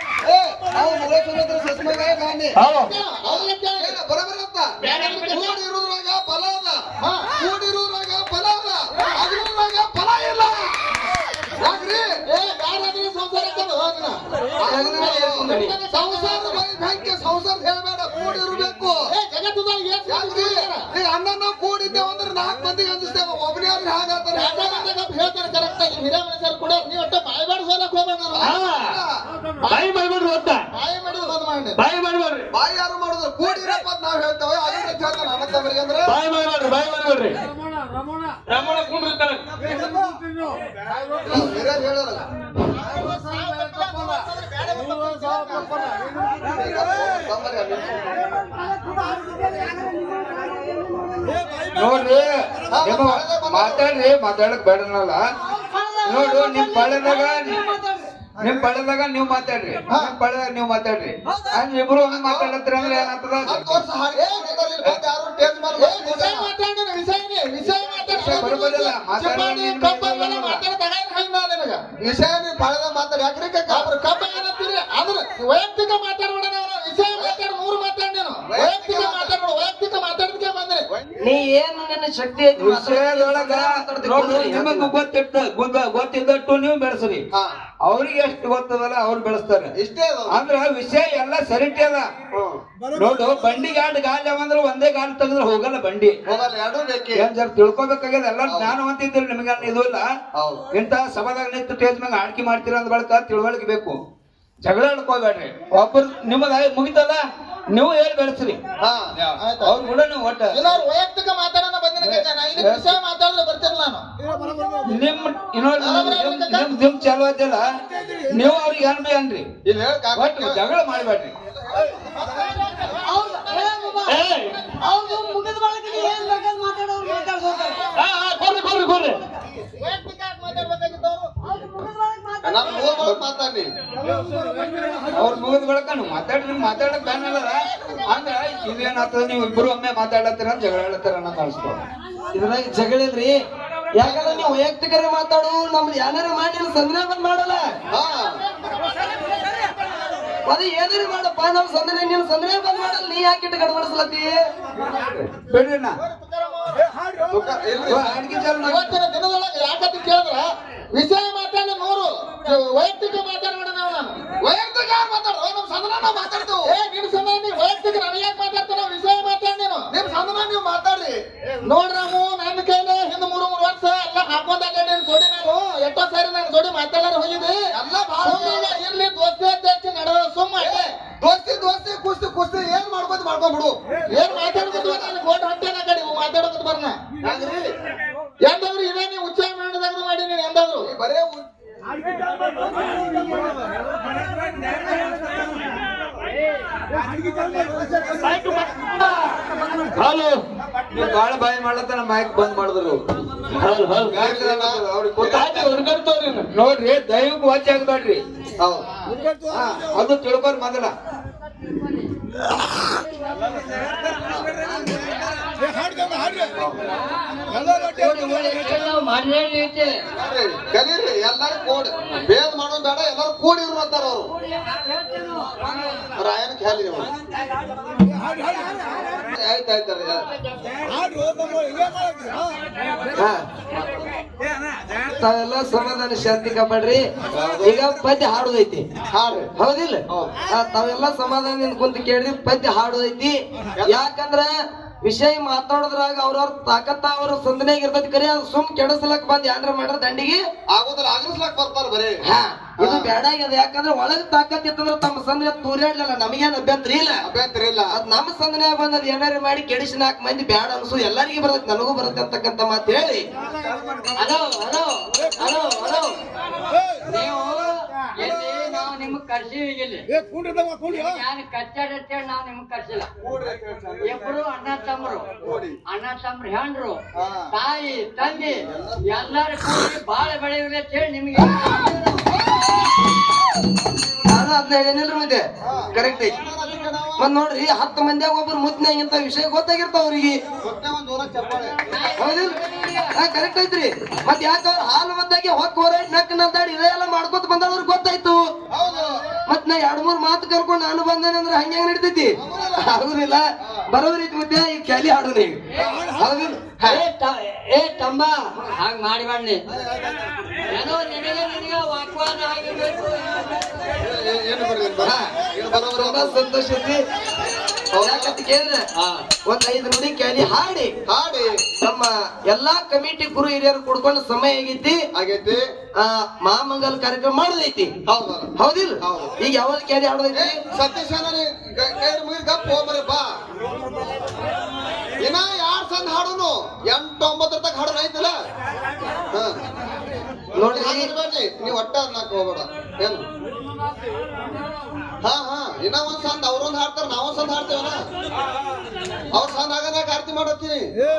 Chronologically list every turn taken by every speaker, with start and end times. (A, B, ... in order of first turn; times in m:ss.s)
0:00.2-0:02.6 A
0:02.6-0:02.9 B
0:02.7-0:04.0 C
0:03.3-0:04.7 A
0:04.8-0:05.6 C
0:05.3-0:10.8 A
0:07.0-0:07.3 C
0:08.9-0:09.2 C
0:11.6-0:12.1 A
0:12.3-0:14.2 C
0:14.6-0:19.1 A
0:14.6-0:15.7 D
0:14.8-0:16.6 C
0:19.1-0:20.9 C
0:20.1-0:24.9 A
0:24.3-0:28.6 C
0:28.3-0:29.1 A
0:28.5-0:29.0 B
0:29.6-0:29.9 C
0:29.7-0:30.7 B
0:30.7-0:31.8 C
0:31.8-0:32.5 B
0:32.5-0:36.2 A
0:36.1-0:37.4 B
0:38.5-0:39.5 B
0:41.3-0:42.3 A
0:42.7-0:45.9 C
0:46.5-0:48.2 A
0:51.7-0:55.2 E
0:52.7-0:53.8 A
0:55.6-0:56.0 D
0:56.0-0:57.3 F
0:56.0-0:57.6 E
0:57.4-0:58.0 D
0:58.4-1:03.8 E
1:02.1-1:06.5 A
1:04.1-1:04.6 C
1:05.8-1:11.8 C
1:08.1-1:08.5 A
1:08.2-1:10.6 E
1:12.0-1:13.9 A
1:13.7-1:20.9 C
1:18.5-1:19.4 A
1:21.2-1:24.9 D
1:22.6-1:27.2 E
1:27.8-1:29.7 E
1:29.8-1:30.4 A
1:30.3-1:32.1 E
1:32.3-1:32.6 A
1:32.9-1:36.1 E
1:36.3-1:37.3 A
1:37.2-1:40.1 E
1:38.4-1:38.7 A
1:40.3-1:40.6 A
1:40.7-1:44.0 E
1:44.6-1:47.2 E
1:47.7-1:48.6 E
1:48.8-1:49.1 A
1:49.2-1:50.6 E
1:49.4-1:49.8 C
1:50.5-1:54.0 C
1:52.6-1:52.9 E
1:54.8-1:57.6 E
1:55.8-1:56.8 C
1:55.8-1:56.1 A
1:58.3-1:59.5 E
1:59.6-2:00.6 A
2:00.1-2:01.3 E
2:02.2-2:05.2 C
2:04.1-2:04.6 B
2:05.0-2:07.2 F
2:05.1-2:07.3 D
2:08.0-2:09.2 B
2:09.8-2:11.3 C
2:11.8-2:12.9 F
2:12.4-2:13.7 A
2:15.1-2:21.8 E
2:22.3-2:23.4 D
2:23.9-2:27.7 D
2:24.0-2:24.5 A
2:27.9-2:28.4 A
2:28.5-2:29.8 C
2:30.5-2:34.4 D
2:35.1-2:36.0 E
2:36.2-2:36.8 C
2:37.3-2:38.1 A
2:37.9-2:39.0 E
2:38.6-2:44.2 C
2:44.4-2:46.7 A
2:46.7-2:49.9 C
2:49.9-2:51.2 A
2:51.6-2:57.6 C
2:57.7-2:58.8 A
2:58.2-3:00.9 C
3:00.6-3:03.8 A
3:04.1-3:07.0 C
3:04.3-3:05.1 A
3:07.2-3:07.7 A
3:08.4-3:10.9 C
3:10.8-3:11.4 A
3:18.2-3:19.4 B
3:19.9-3:20.4 B
3:20.9-3:23.0 E
3:23.6-3:24.2 B
3:24.1-3:25.7 E
3:24.1-3:25.6 A
3:25.3-3:26.5 B
3:26.5-3:28.2 E
3:28.6-3:28.8 A
3:29.5-3:30.9 E
3:36.4-3:36.8 A
3:37.6-3:38.9 D
3:38.0-3:40.0 F
3:40.1-3:44.3 A
3:44.7-3:46.0 F
3:46.2-3:47.1 A
3:49.2-3:50.3 A
3:53.2-3:53.4 D
3:53.7-3:54.0 A
3:55.1-3:57.1 D
3:57.3-3:57.7 A
3:57.6-3:58.9 D
3:59.1-3:59.5 A
3:59.6-4:04.5 D
4:00.1-4:00.3 A
4:05.0-4:10.4 D
4:10.7-4:12.2 A
4:12.3-4:17.2 D
4:12.8-4:13.1 A
4:17.2-4:18.0 A
4:17.9-4:23.2 D
4:24.2-4:26.2 F
4:27.0-4:30.1 F
4:30.8-4:33.1 F
4:33.2-4:34.4 A
4:34.0-4:35.3 F
4:35.4-4:35.8 A
4:35.9-4:42.0 F
4:37.2-4:39.4 A
4:44.3-4:46.4 D
4:45.6-4:47.3 A
4:47.2-4:50.4 D
4:50.6-4:51.8 A
4:51.9-4:53.1 F
4:52.2-4:58.4 D
4:58.7-4:59.2 A
4:59.5-5:05.6 D
5:02.4-5:03.0 A
5:05.8-5:06.1 A
5:06.1-5:07.0 D
5:06.8-5:09.6 F
5:09.7-5:10.2 A
5:10.7-5:13.5 F
5:14.0-5:16.4 A
5:15.8-5:17.0 D
5:17.9-5:18.4 A
5:18.0-5:18.9 D
5:19.0-5:19.2 A
5:19.4-5:21.0 D
5:21.1-5:21.7 A
5:21.8-5:25.1 D
5:25.1-5:25.6 A
5:26.0-5:27.9 D
5:28.1-5:29.3 A
5:28.6-5:30.6 D
5:30.3-5:33.4 A
5:35.2-5:38.4 A
5:39.3-5:39.6 A
5:40.6-5:41.1 D
5:40.6-5:43.2 A
5:45.2-5:48.0 A
5:49.3-5:50.9 A